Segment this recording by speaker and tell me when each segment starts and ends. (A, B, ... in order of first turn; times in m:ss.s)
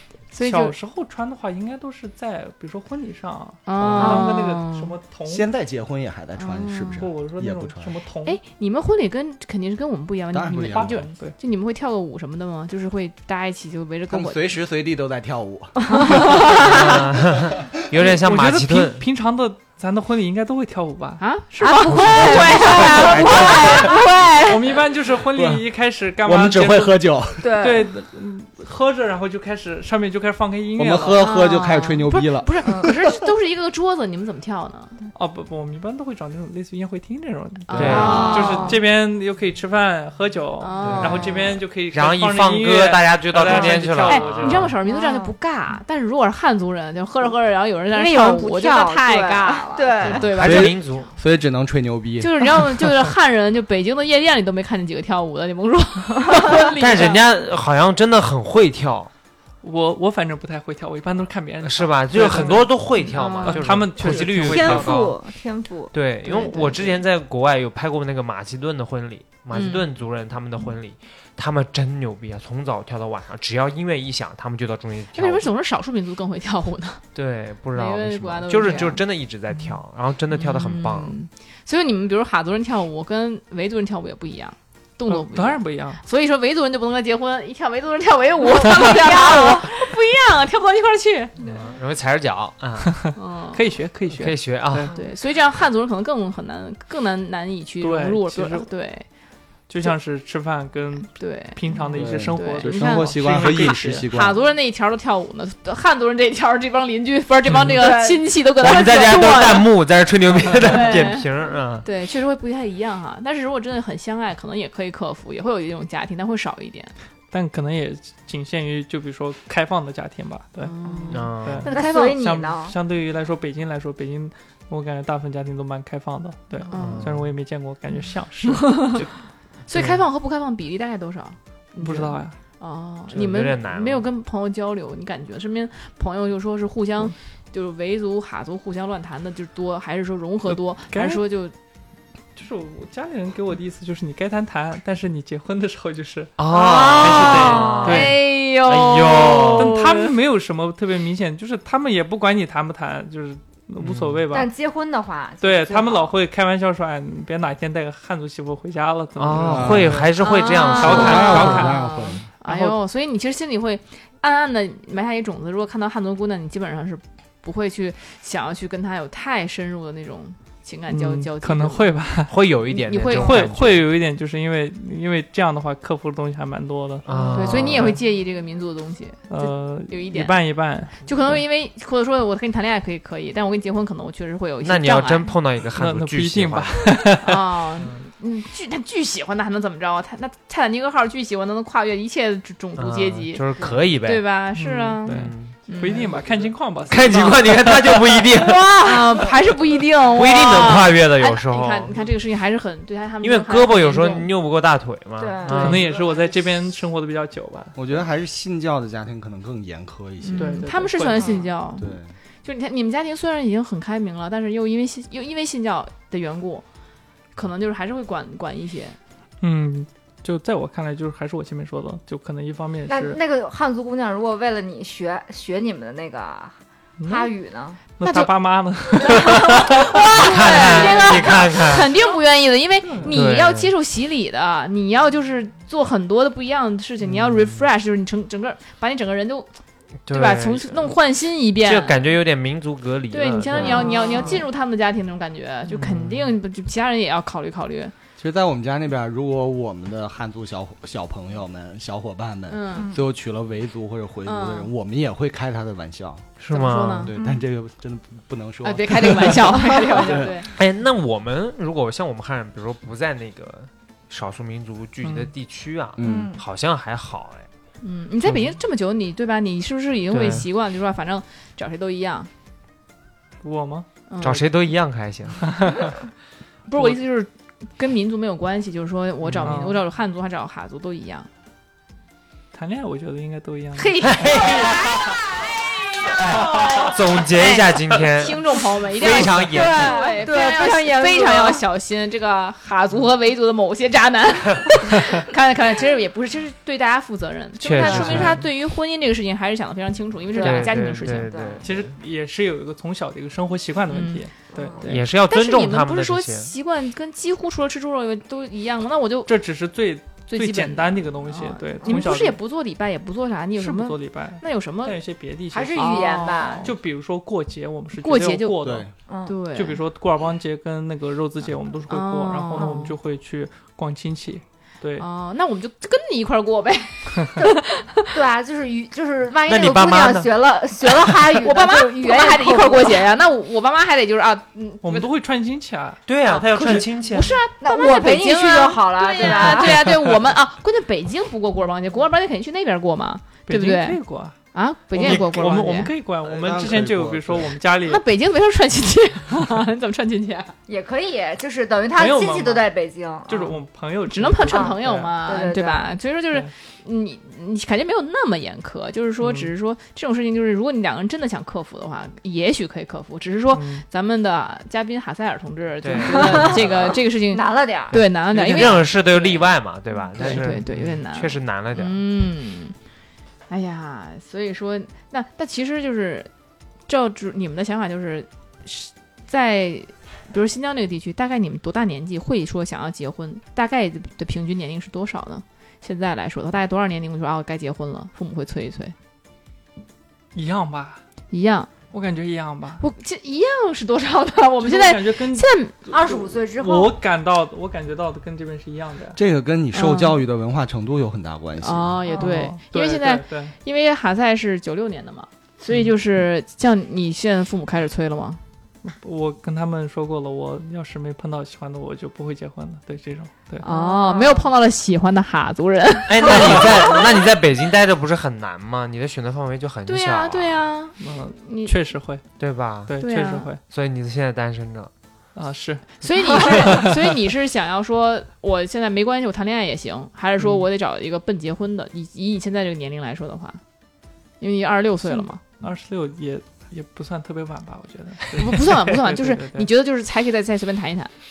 0:00.3-0:00.7 A
0:00.4-0:05.5 B
0:03.6-0:04.9 A
0:03.8-0:04.3 C
0:05.2-0:07.9 C
0:06.4-0:07.1 A
0:07.0-0:08.4 B
0:08.2-0:14.5 A
0:10.3-0:11.1 C
0:10.7-0:11.4 B
0:14.1-0:17.0 C
0:15.9-0:16.8 A
0:16.6-0:19.0 D
0:17.9-0:21.2 B
0:21.2-0:24.5 A
0:21.7-0:24.5 E
0:21.8-0:23.9 D
0:22.8-0:23.5 C
0:24.4-0:31.2 B
0:25.3-0:25.6 C
0:26.2-0:27.5 C
0:27.4-0:27.9 E
0:30.8-0:33.1 C
0:31.2-0:35.0 A
0:35.1-0:44.7 B
0:37.7-0:38.8 A
0:37.7-0:38.6 D
0:37.9-0:38.8 E
0:40.6-0:41.4 A
0:40.8-0:41.4 D
0:41.9-0:44.8 D
0:43.5-0:43.8 E
0:44.0-0:50.8 A
0:44.8-0:45.3 E
0:47.9-0:50.4 E
0:50.2-0:51.1 D
0:50.4-0:52.9 C
0:52.2-0:57.2 A
0:56.2-0:56.5 E
0:56.8-0:59.1 D
0:59.6-1:02.8 B
1:01.6-1:05.2 D
1:03.1-1:03.7 A
1:03.4-1:05.0 B
1:04.0-1:07.0 E
1:05.9-1:15.5 D
1:06.2-1:06.8 A
1:09.5-1:09.8 A
1:15.1-1:17.0 A
1:17.1-1:21.2 D
1:17.7-1:19.0 A
1:20.3-1:31.3 A
1:25.1-1:26.0 B
1:28.6-1:29.7 E
1:31.4-1:33.1 D
1:32.8-1:34.9 B
1:33.2-1:33.6 A
1:34.1-1:34.9 D
1:34.9-1:39.0 A
1:37.8-1:38.7 B
1:39.7-1:44.1 B
1:41.1-1:49.7 A
1:41.9-1:44.4 C
1:47.8-1:48.2 E
1:48.6-1:51.9 D
1:50.6-1:51.3 A
1:51.8-1:56.9 A
1:57.3-2:00.7 B
2:00.6-2:02.2 A
2:01.1-2:01.7 D
2:01.4-2:08.9 B
2:01.6-2:02.8 E
2:06.6-2:07.1 A
2:06.7-2:07.3 D
2:08.5-2:09.0 A
2:08.8-2:09.1 D
2:09.7-2:10.0 D
2:09.7-2:21.5 A
2:11.8-2:12.4 B
2:13.1-2:14.1 D
2:20.5-2:21.2 B
2:22.4-2:26.4 B
2:26.4-2:29.8 D
2:26.5-2:28.0 E
2:27.0-2:28.2 B
2:27.3-2:30.1 A
2:29.5-2:34.5 B
2:33.8-2:34.2 D
2:34.3-2:36.1 E
2:35.4-2:40.1 B
2:39.2-2:41.8 D
2:39.4-2:40.0 C
2:40.2-2:41.2 E
2:40.2-2:52.0 A
2:40.8-2:41.8 B
2:40.8-2:42.3 C
2:42.4-2:42.8 B
2:50.9-2:52.4 B
2:52.3-2:53.8 D
2:52.7-2:53.5 A
2:53.1-2:58.0 B
2:57.0-2:58.0 D
2:57.3-3:00.4 A
2:59.3-3:01.4 B
3:00.9-3:05.3 A
3:04.6-3:06.9 D
3:05.7-3:07.4 B
3:07.2-3:13.5 A
3:12.8-3:14.3 D
3:13.6-3:13.8 E
3:14.0-3:16.1 A
3:14.5-3:18.0 B
3:15.0-3:15.6 D
3:15.8-3:16.5 E
3:16.9-3:19.0 D
3:18.3-3:24.3 A
3:20.1-3:22.0 D
3:23.2-3:25.9 D
3:25.2-3:26.4 E
3:25.4-3:25.8 A
3:25.5-3:27.8 B
3:27.7-3:30.6 C
3:30.2-3:36.6 A
3:30.4-3:31.4 B
3:31.1-3:31.5 E
3:31.8-3:32.1 C
3:37.3-3:39.0 A
3:39.4-3:43.2 B
3:42.9-3:47.8 E
3:47.0-3:47.3 B
3:48.0-3:50.1 B
3:48.0-3:48.3 A
3:49.0-3:51.5 E
3:49.1-3:59.5 A
3:50.1-3:51.9 D
3:52.9-3:53.2 B
3:53.1-3:53.7 D
3:57.1-3:57.6 D
4:00.0-4:01.0 D
4:00.1-4:02.0 A
4:01.6-4:04.2 D
4:03.1-4:07.9 A
4:03.5-4:04.4 E
4:05.7-4:06.3 D
4:08.2-4:16.3 C
4:12.5-4:12.9 A
4:12.7-4:13.0 E
4:14.2-4:14.7 A
4:16.4-4:17.1 D
4:16.5-4:17.1 A
4:17.0-4:20.3 C
4:17.1-4:17.4 E
4:18.6-4:20.5 A
4:19.6-4:20.3 E
4:20.5-4:27.5 D
4:25.0-4:25.3 B
4:26.0-4:26.3 C
4:26.0-4:26.4 E
4:27.8-4:32.3 A
4:28.2-4:28.6 D
4:30.1-4:30.5 D
4:33.4-4:33.9 B
4:34.1-4:34.5 A
4:34.2-4:35.8 D
4:35.4-4:35.9 B
4:36.7-4:41.3 A
4:39.2-4:39.7 D
4:39.4-4:39.8 B
4:42.5-4:44.4 B
4:43.8-4:44.8 A
4:44.0-4:45.2 D
4:46.2-4:50.0 D
4:46.3-5:01.5 A
4:49.3-4:51.6 E
4:57.6-4:58.4 D
4:57.8-4:58.1 E
4:58.0-4:58.3 B
5:00.3-5:01.6 E
5:00.4-5:01.9 D
5:01.6-5:05.0 B
5:03.9-5:04.2 A
5:04.5-5:04.8 E
5:04.8-5:06.5 D
5:05.2-5:09.3 A
5:09.3-5:12.4 B
5:10.3-5:15.0 A
5:13.6-5:16.1 B
5:15.5-5:16.7 E
5:15.7-5:16.7 A
5:16.6-5:18.9 B
5:18.0-5:18.7 A
5:18.6-5:18.9 C
5:19.1-5:19.3 E
5:19.2-5:19.8 A
5:19.5-5:25.0 B
5:21.9-5:23.0 A
5:25.0-5:28.2 A
5:27.4-5:33.1 E
5:29.4-5:30.3 D
5:31.3-5:35.1 A
5:34.8-5:36.0 B
5:36.0-5:37.4 D
5:36.2-5:36.9 E
5:36.5-5:45.9 A
5:37.6-5:39.9 E
5:39.2-5:39.7 B
5:43.5-5:44.4 B
5:44.9-5:48.0 B
5:46.2-5:47.5 C
5:47.8-5:50.5 A
5:50.7-5:53.6 E
5:52.0-5:52.7 B
5:53.3-5:55.1 B
5:54.1-6:08.9 A
5:54.5-5:55.9 E
5:59.2-5:59.5 B
6:03.5-6:03.8 B
6:05.8-6:06.9 D
6:06.2-6:08.0 E
6:07.9-6:12.0 D
6:09.1-6:09.4 E
6:10.2-6:12.8 A
6:10.2-6:10.9 B
6:13.5-6:16.3 A
6:16.9-6:28.9 A
6:30.3-6:31.0 B
6:31.3-6:31.7 A
6:31.9-6:32.8 B
6:32.8-6:35.8 A
6:34.6-6:39.2 B
6:35.9-6:37.0 E
6:39.1-6:42.0 C
6:39.7-6:40.2 A
6:41.6-6:48.4 A
6:42.1-6:43.5 B
6:48.8-6:53.6 B
6:53.6-6:57.0 A
6:53.6-6:54.5 E
6:56.1-7:00.7 D
6:56.4-6:57.2 E
6:59.8-7:01.7 A
7:01.0-7:02.2 B
7:02.4-7:03.0 D
7:02.9-7:03.6 B
7:03.0-7:03.5 A
7:03.6-7:04.9 D
7:05.3-7:07.0 B
7:06.0-7:13.6 A
7:06.3-7:06.8 E
7:10.4-7:10.7 B
7:14.4-7:15.4 A
7:15.0-7:19.7 B
7:18.3-7:21.1 A